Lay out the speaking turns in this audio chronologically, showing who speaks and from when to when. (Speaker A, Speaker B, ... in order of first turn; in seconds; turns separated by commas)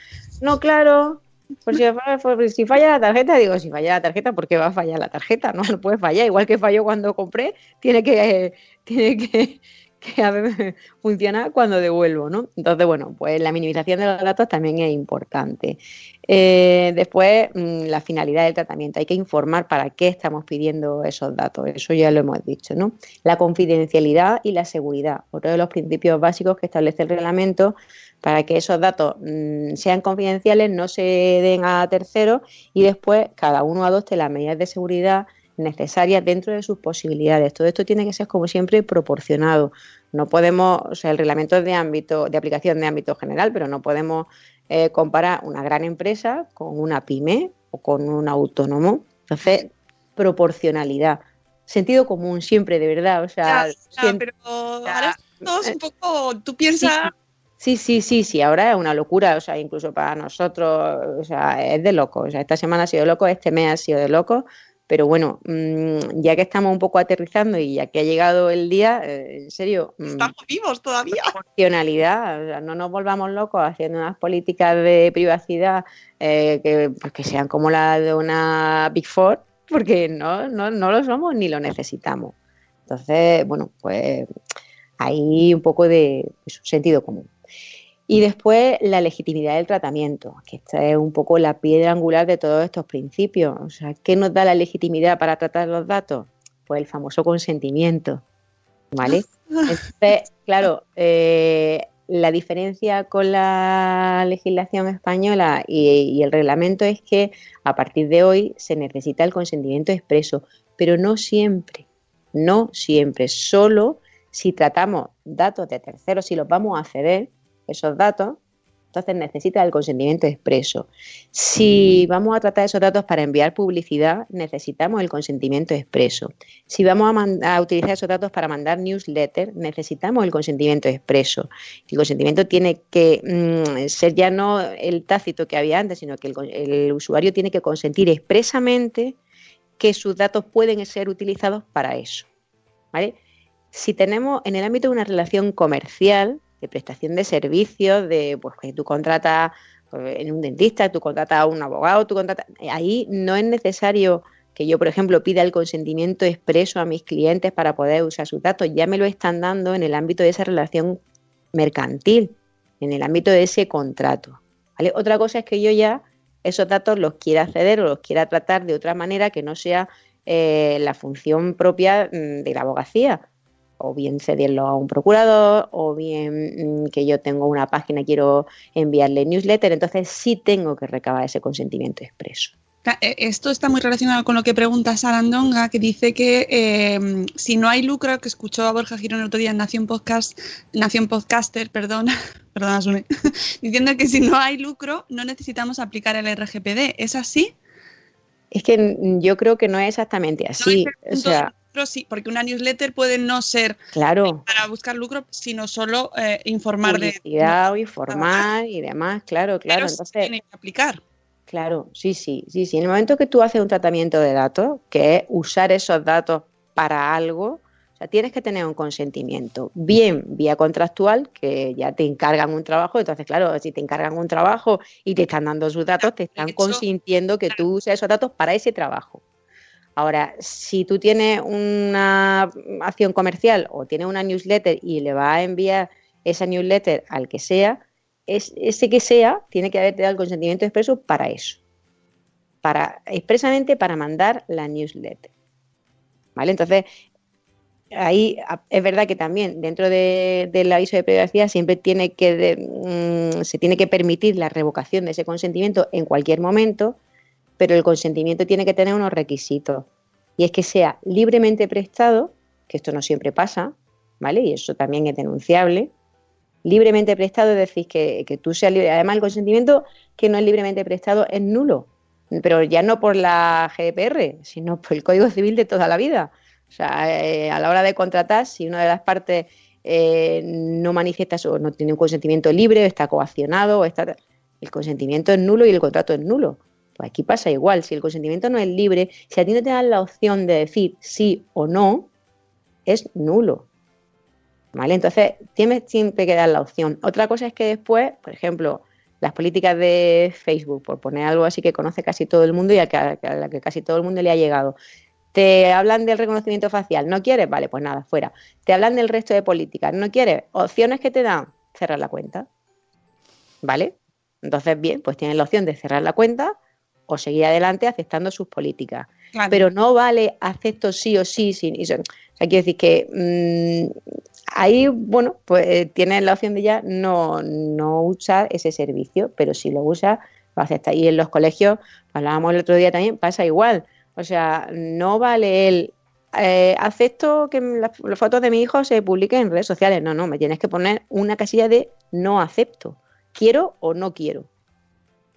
Speaker A: 0.4-54.2, Speaker B: 53.5-57.1, Speaker A: 54.9-55.7, Speaker A: 56.8-70.3, Speaker B: 70.1-71.4, Speaker A: 71.2-82.3, Speaker A: 82.9-84.3, Speaker A: 85.0-87.3, Speaker A: 88.1-98.2, Speaker A: 98.9-118.4, Speaker B: 99.0-99.6, Speaker A: 118.9-139.2, Speaker A: 139.8-142.3, Speaker A: 143.7-161.0, Speaker A: 161.5-173.2, Speaker A: 173.8-182.5, Speaker B: 182.8-193.1, Speaker B: 193.6-197.5, Speaker A: 198.5-201.5, Speaker B: 200.6-203.8, Speaker A: 203.9-204.4, Speaker B: 204.3-208.5, Speaker A: 206.8-210.3, Speaker B: 209.7-211.0, Speaker A: 211.5-229.2, Speaker B: 226.0-226.8, Speaker A: 230.0-241.6, Speaker A: 242.6-245.3, Speaker A: 246.4-246.9, Speaker A: 247.9-257.0, Speaker A: 257.6-259.9, Speaker A: 260.4-265.9, Speaker A: 266.6-292.1, Speaker A: 292.9-293.7, Speaker A: 294.7-304.8, Speaker A: 305.3-312.5, Speaker A: 313.6-316.6, Speaker A: 317.1-324.0, Speaker B: 319.3-319.6, Speaker A: 324.5-344.5